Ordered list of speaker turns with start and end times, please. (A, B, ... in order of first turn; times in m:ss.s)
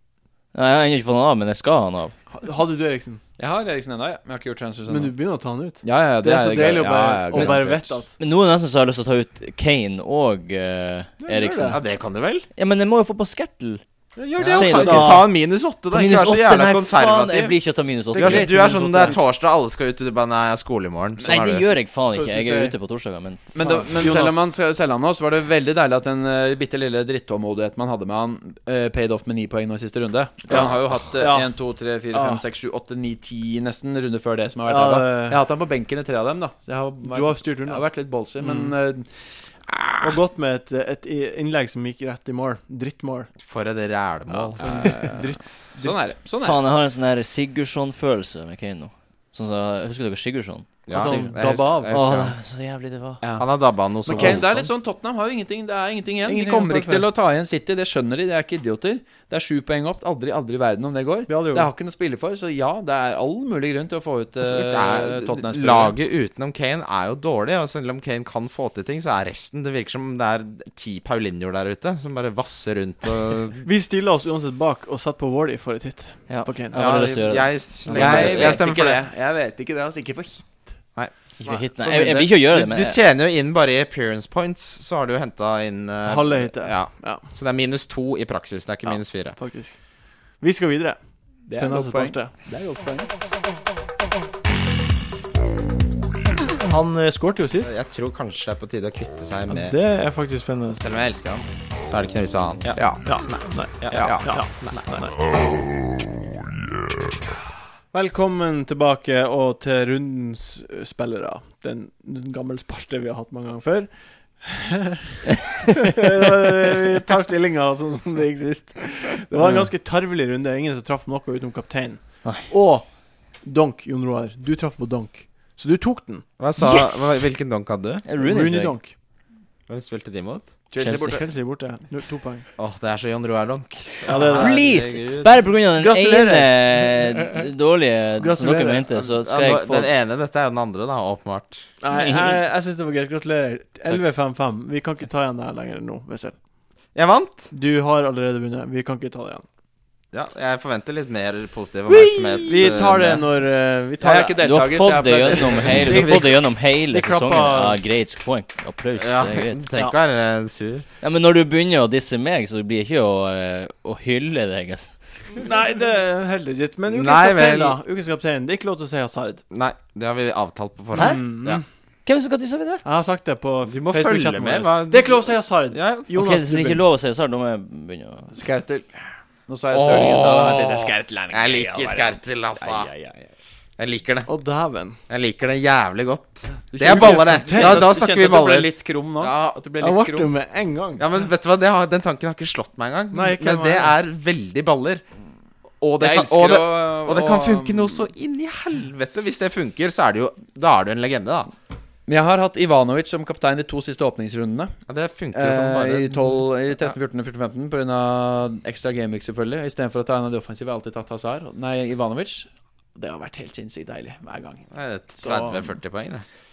0:00.5-0:02.1 A
0:02.3-0:03.2 B
0:03.4-0:05.1 C
0:04.9-0:08.1 B
0:05.8-0:07.9 C
0:07.3-0:11.8 A
0:11.2-0:11.8 B
0:11.7-0:12.5 D
0:12.6-0:13.8 A
0:14.2-0:15.3 B
0:14.4-0:17.6 D
0:14.4-0:15.3 A
0:15.9-0:18.7 A
0:18.1-0:19.2 B
0:18.1-0:21.7 D
0:21.2-0:23.6 A
0:22.1-0:22.8 B
0:23.6-0:39.1 C
0:23.6-0:24.4 B
0:30.5-0:30.8 D
0:31.2-0:31.5 B
0:32.1-0:32.4 B
0:34.7-0:35.4 B
0:37.0-0:37.9 B
0:38.4-0:38.7 B
0:39.7-0:40.2 C
0:40.0-0:43.3 B
0:43.4-0:45.0 D
0:44.3-0:46.1 B
0:44.6-0:46.6 C
0:46.4-0:51.4 A
0:50.9-0:52.4 D
0:50.9-0:52.0 B
0:51.9-0:53.2 A
0:53.2-0:53.5 C
0:53.4-0:54.7 D
0:54.0-1:06.0 C
0:56.3-0:57.1 B
1:01.3-1:01.7 B
1:04.4-1:13.6 D
1:13.6-1:17.1 B
1:16.3-1:18.6 A
1:16.7-1:19.0 D
1:17.9-1:20.8 C
1:21.4-1:23.0 A
1:22.1-1:29.4 D
1:26.0-1:27.2 B
1:29.4-1:29.8 B
1:30.4-1:32.3 B
1:31.5-1:33.1 C
1:36.6-1:37.7 B
1:37.6-1:39.8 D
1:39.5-1:40.8 B
1:40.8-1:44.8 D
1:42.8-1:43.1 C
1:43.0-1:45.2 B
1:43.9-1:44.4 C
1:47.9-2:06.3 B
1:59.4-1:59.7 A
2:06.4-2:08.0 D
2:06.6-2:07.3 A
2:08.0-2:08.8 A
2:08.2-2:09.0 B
2:09.7-2:10.6 D
2:10.7-2:11.2 C
2:10.8-2:12.4 B
2:10.8-2:11.1 A
2:12.6-2:15.4 D
2:14.0-2:14.7 B
2:14.4-2:19.9 A
2:15.8-2:17.1 B
2:18.2-2:18.8 B
2:18.9-2:21.7 D
2:21.8-2:26.4 B
2:21.9-2:22.4 A
2:27.0-2:27.5 D
2:27.5-2:29.4 B
2:30.1-2:33.2 D
2:31.9-2:32.7 C
2:32.4-2:34.4 B
2:34.0-2:36.0 C
2:34.4-2:39.7 A
2:35.6-2:37.8 B
2:39.0-2:40.9 D
2:41.0-2:45.0 A
2:45.4-2:49.4 B
2:46.9-2:47.8 D
2:49.5-2:51.6 D
2:51.0-2:51.2 A
2:51.0-2:51.6 B
2:52.1-2:52.8 A
2:52.8-2:56.8 B
2:53.7-2:56.1 D
2:56.1-2:58.3 A
2:58.3-3:03.3 C
2:59.7-3:02.9 D
3:03.8-3:04.3 D
3:04.3-3:05.0 B
3:05.1-3:09.6 D
3:06.7-3:10.3 C
3:06.9-3:07.9 B
3:09.8-3:11.0 B
3:11.0-3:15.0 D
3:13.1-3:13.9 B
3:15.8-3:21.5 D
3:16.0-3:18.1 C
3:22.1-3:24.8 C
3:24.9-3:26.2 D
3:25.3-3:34.7 C
3:34.7-3:36.2 D
3:35.2-3:35.7 C